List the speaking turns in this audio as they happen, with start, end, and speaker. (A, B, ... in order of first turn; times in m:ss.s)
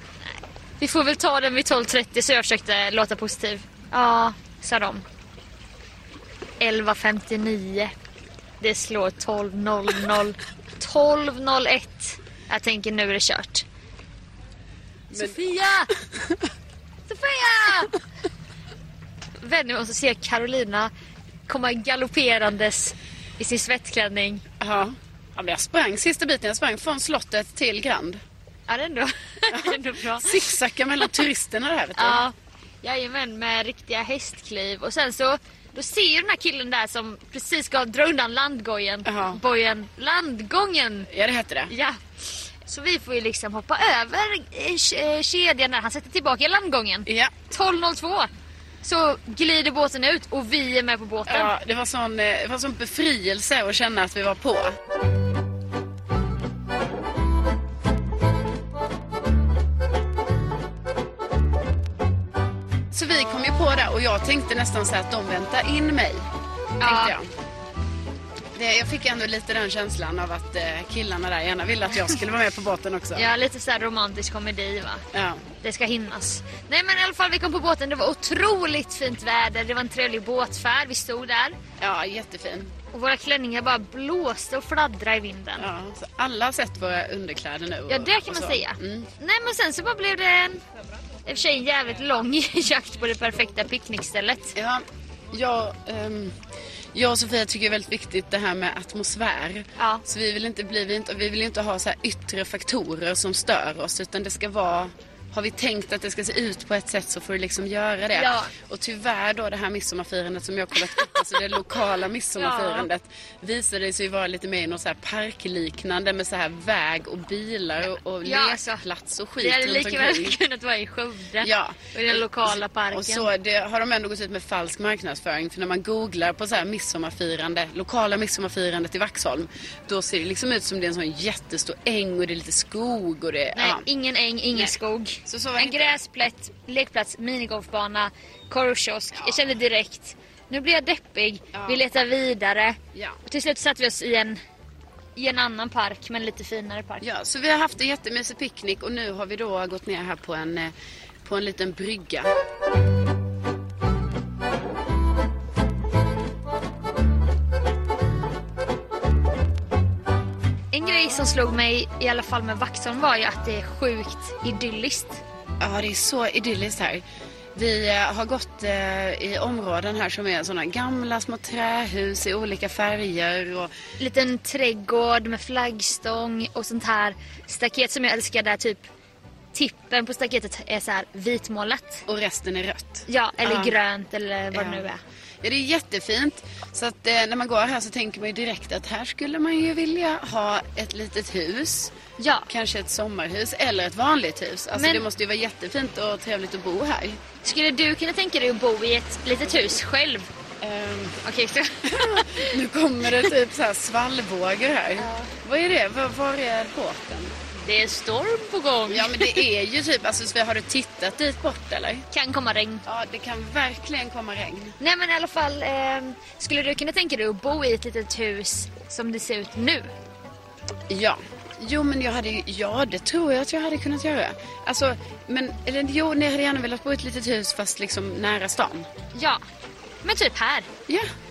0:00.8-0:05.0 A
0:06.6-0:07.9 A
0:08.6-0:13.6 A
0:15.1-0:15.9 A
0:17.1-0:17.9 A
0:19.4-0:20.9 A
0:21.5-0:24.4 A
0:24.6-0:28.2 B
0:28.7-0:31.1 A
0:29.5-0:32.2 B
0:32.0-0:41.1 A
0:39.1-0:39.4 B
0:41.1-0:41.7 B
0:41.7-0:42.0 A
0:42.7-0:48.3 A
0:47.1-0:47.3 B
0:48.8-0:51.5 A
0:51.3-0:54.8 B
1:02.9-1:06.3 B
1:06.8-1:07.2 A
1:06.8-1:07.3 B
1:08.6-1:13.3 B
1:13.2-1:15.0 A
1:15.1-1:15.4 B
1:15.6-1:21.6 A
1:21.8-1:22.7 B
1:22.9-1:25.7 A
1:25.6-1:29.1 B
1:27.9-1:30.6 A
1:31.3-1:34.5 A
1:34.6-1:36.4 B
1:36.9-2:00.4 B
1:39.8-1:40.0 A
1:48.1-1:48.5 A
1:51.0-1:51.6 A
1:52.4-1:52.9 A
1:58.2-1:58.8 A
1:59.4-2:03.3 A
2:01.4-2:13.8 B
2:13.6-2:24.4 A
2:15.3-2:16.0 B
2:21.5-2:21.8 B
2:25.2-2:27.0 A
2:27.0-2:30.7 B
2:31.2-2:32.3 B
2:40.7-2:45.2 A
2:45.6-2:47.0 B
2:47.6-2:53.7 B
2:54.0-2:58.8 A
2:59.5-3:02.1 A
3:02.1-3:03.7 B
3:03.1-3:05.0 A
3:04.5-3:04.9 B
3:05.4-3:11.9 B
3:12.2-3:12.5 A
3:12.5-3:17.2 B
3:14.8-3:15.0 A
3:17.4-3:20.3 A
3:20.6-3:21.2 B
3:21.2-3:22.5 A
3:21.9-3:27.4 B
3:25.0-3:25.3 A
3:27.6-3:29.4 A
3:28.9-3:32.0 B
3:32.1-3:32.8 A
3:32.9-3:34.8 B
3:34.8-3:39.9 A
3:40.9-3:48.9 B
3:49.1-3:49.4 A
3:50.0-3:50.7 A